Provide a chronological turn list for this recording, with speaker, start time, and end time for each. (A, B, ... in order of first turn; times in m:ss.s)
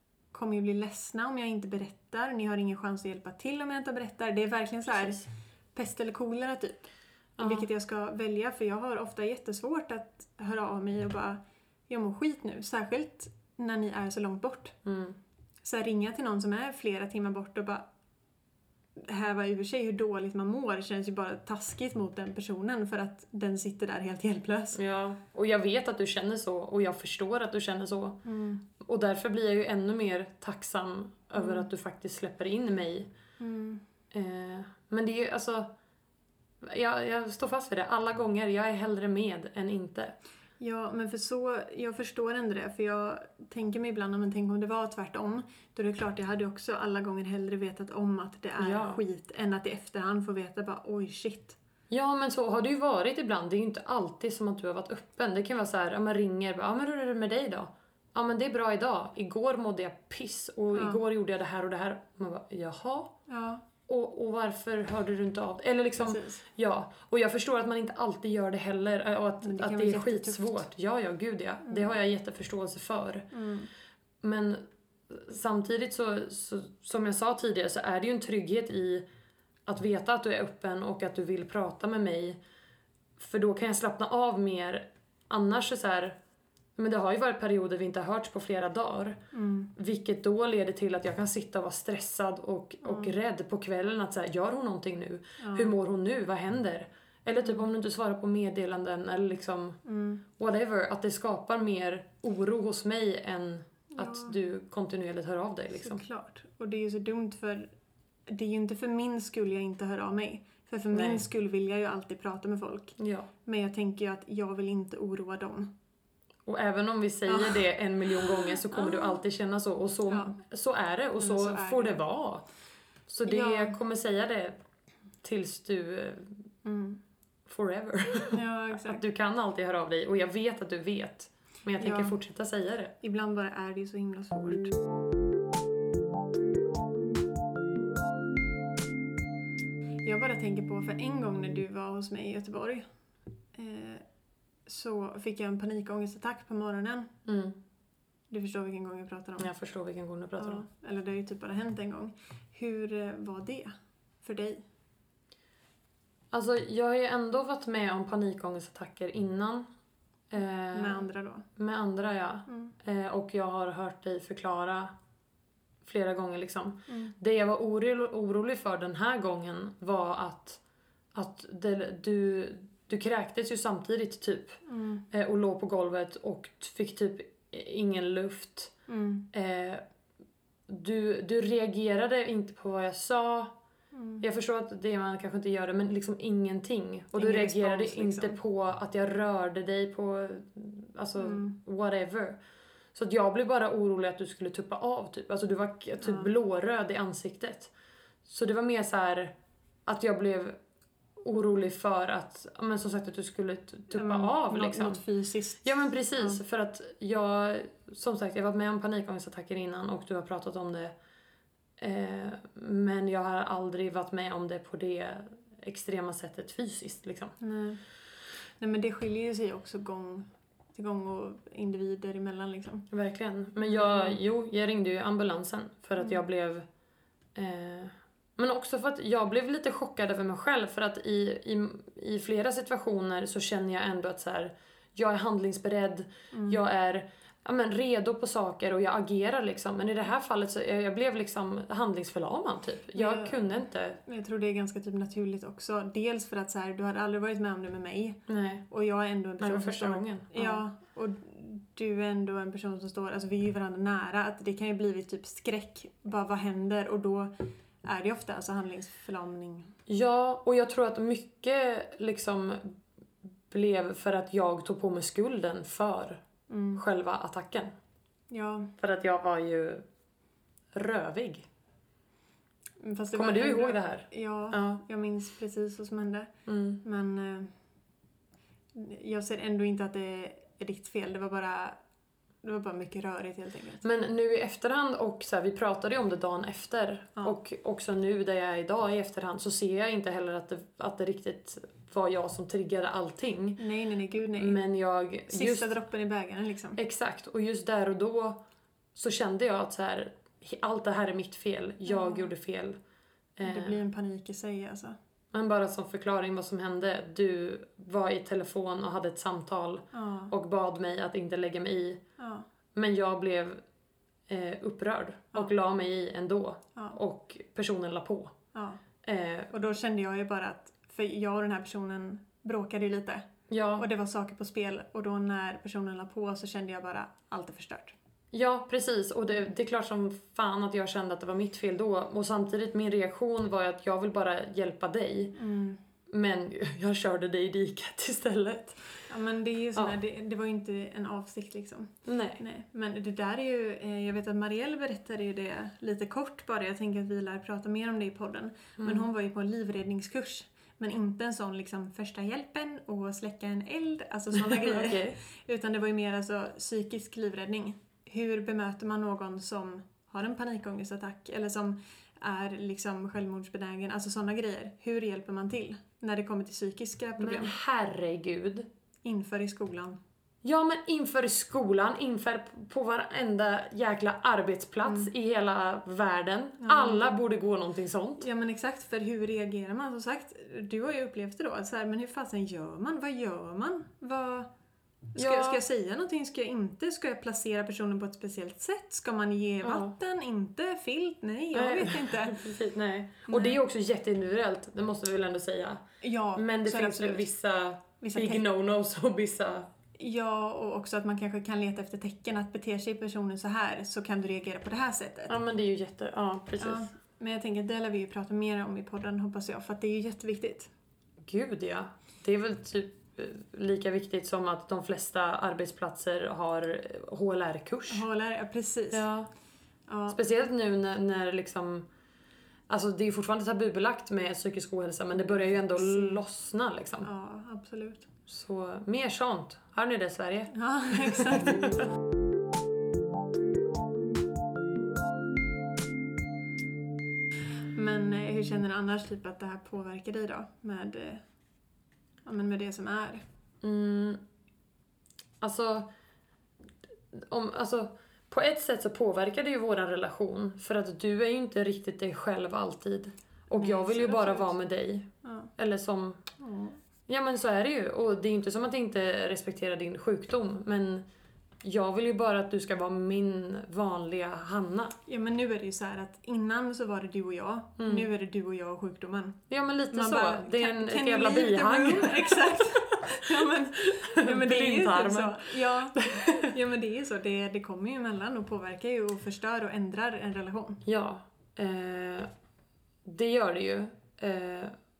0:00.3-0:14.8 A
0:04.9-0:05.2 B
0:07.4-0:07.7 B
0:14.8-0:15.2 B
0:15.6-0:17.8 A
0:19.0-0:24.8 A
0:24.7-0:28.2 B
0:28.2-0:28.6 A
0:28.8-0:33.1 B
0:31.4-0:31.7 A
0:33.4-0:33.8 A
0:34.1-0:35.7 B
0:36.6-0:40.2 B
0:40.6-0:51.6 A
0:48.6-0:49.0 B
0:51.9-1:03.1 B
1:00.7-1:01.0 A
1:03.3-1:03.6 A
1:03.8-1:13.3 B
1:06.0-1:06.4 A
1:09.4-1:10.5 A
1:11.6-1:11.9 A
1:13.3-1:13.7 A
1:14.2-1:19.0 B
1:19.6-1:22.4 B
1:23.2-1:26.2 B
1:26.8-1:29.2 B
1:29.3-1:29.7 A
1:29.7-1:39.8 B
1:32.8-1:33.1 A
1:35.4-1:35.7 A
1:39.8-1:40.2 A
1:40.3-1:46.0 B
1:43.9-1:44.4 A
1:45.7-1:47.7 A
1:48.3-1:55.7 A
1:50.9-1:51.2 B
1:53.0-1:53.3 B
1:56.4-2:02.4 B
1:57.3-1:59.2 A
2:00.1-2:00.4 A
2:01.2-2:02.0 A
2:03.1-2:04.6 B
2:03.2-2:03.8 A
2:05.2-2:06.4 B
2:06.6-2:07.0 A
2:07.5-2:12.9 B
2:08.3-2:09.0 A
2:11.8-2:12.2 A
2:13.0-2:14.7 A
2:20.0-2:22.8 A
2:23.5-2:24.0 A
2:24.6-2:27.1 A
2:27.2-2:27.6 B
2:28.3-2:29.5 A
2:29.4-2:30.6 B
2:30.4-2:34.6 A
2:36.3-2:39.7 B
2:40.3-2:41.0 B
2:40.7-2:41.5 A
2:41.6-2:44.9 B
2:42.5-2:42.7 A
2:45.8-2:50.6 B
2:46.9-2:47.1 A
2:51.1-2:54.6 B
2:54.6-2:55.0 A
2:55.1-2:58.7 B
2:58.9-2:59.3 A
2:59.3-2:59.8 B
3:00.7-3:03.5 B
3:03.9-3:04.2 A
3:04.2-3:12.4 B
3:07.2-3:08.4 A
3:11.2-3:11.6 A
3:12.9-3:17.7 B
3:16.0-3:16.3 A
3:18.2-3:19.3 B
3:19.8-3:20.6 B
3:21.2-3:25.0 B
3:23.9-3:26.4 A
3:25.6-3:30.9 B
3:31.8-3:37.4 B
3:37.4-3:37.8 A
3:38.6-3:42.9 A
3:42.9-3:46.6 B
3:43.7-3:44.2 A
3:47.3-4:04.0 B
3:56.3-3:56.6 A
4:02.9-4:03.4 A
4:04.0-4:17.3 A
4:08.3-4:08.6 B
4:09.4-4:10.6 B
4:17.8-4:19.8 A
4:19.9-4:22.8 B
4:23.5-4:26.2 B
4:26.5-4:26.8 A
4:26.8-4:27.7 B
4:28.3-4:28.7 A
4:28.8-4:29.8 B
4:30.7-4:31.5 B
4:32.8-4:36.3 A
4:33.1-4:34.8 B
4:36.5-4:36.8 B
4:36.8-4:37.5 A
4:38.7-4:41.8 A
4:42.4-4:43.8 A
4:43.8-4:53.6 B
4:53.6-4:54.6 A
4:54.3-4:55.7 B
4:55.3-4:56.8 A
4:56.8-4:58.4 B
4:58.9-5:02.8 B
5:01.8-5:02.3 A
5:03.4-5:03.8 B
5:03.4-5:05.0 A
5:05.3-5:12.0 B
5:09.9-5:10.3 A
5:12.2-5:12.5 A
5:12.7-5:13.6 B
5:14.3-5:18.3 B
5:18.5-5:18.8 A
5:19.0-5:19.5 B
5:19.5-5:23.2 A
5:23.5-5:23.8 B
5:23.8-5:27.9 A
5:28.3-5:35.4 B
5:35.3-5:35.8 A
5:36.1-5:39.0 B
5:39.1-6:07.5 A
5:42.0-5:42.4 B
5:48.8-5:49.0 B
5:54.3-5:55.2 B
6:07.2-6:08.7 B
6:09.0-6:10.0 A
6:10.4-6:18.3 B
6:16.6-6:17.2 A
6:18.2-6:24.5 A
6:25.1-6:32.4 A
6:25.2-6:25.6 B
6:29.6-6:29.9 B
6:31.5-6:35.8 B
6:33.3-6:33.6 A
6:36.0-6:37.3 A
6:36.4-6:39.7 B
6:38.0-6:38.4 A
6:40.0-6:45.3 A
6:45.3-6:46.9 B
6:46.6-6:50.7 A
6:51.2-6:58.0 B
6:57.9-6:59.1 A
6:58.9-6:59.3 B
6:59.9-7:00.2 A
7:00.1-7:01.8 B
7:02.7-7:07.1 B
7:05.2-7:06.2 A
7:07.0-7:08.1 A
7:08.3-7:11.8 B
7:10.5-7:11.7 A
7:17.7-7:21.2 A
7:22.2-7:23.2 A
7:23.6-7:24.2 B
7:25.4-7:25.9 B
7:27.1-7:36.2 B
7:33.5-7:34.6 A
7:35.2-7:35.5 A
7:36.4-7:36.8 A
7:37.1-7:41.0 B
7:41.6-7:45.0 B
7:45.1-7:49.4 A
7:47.8-7:48.1 B
7:49.5-7:56.5 B
7:49.9-8:00.8 A
8:00.8-8:02.3 B
8:03.0-8:04.7 B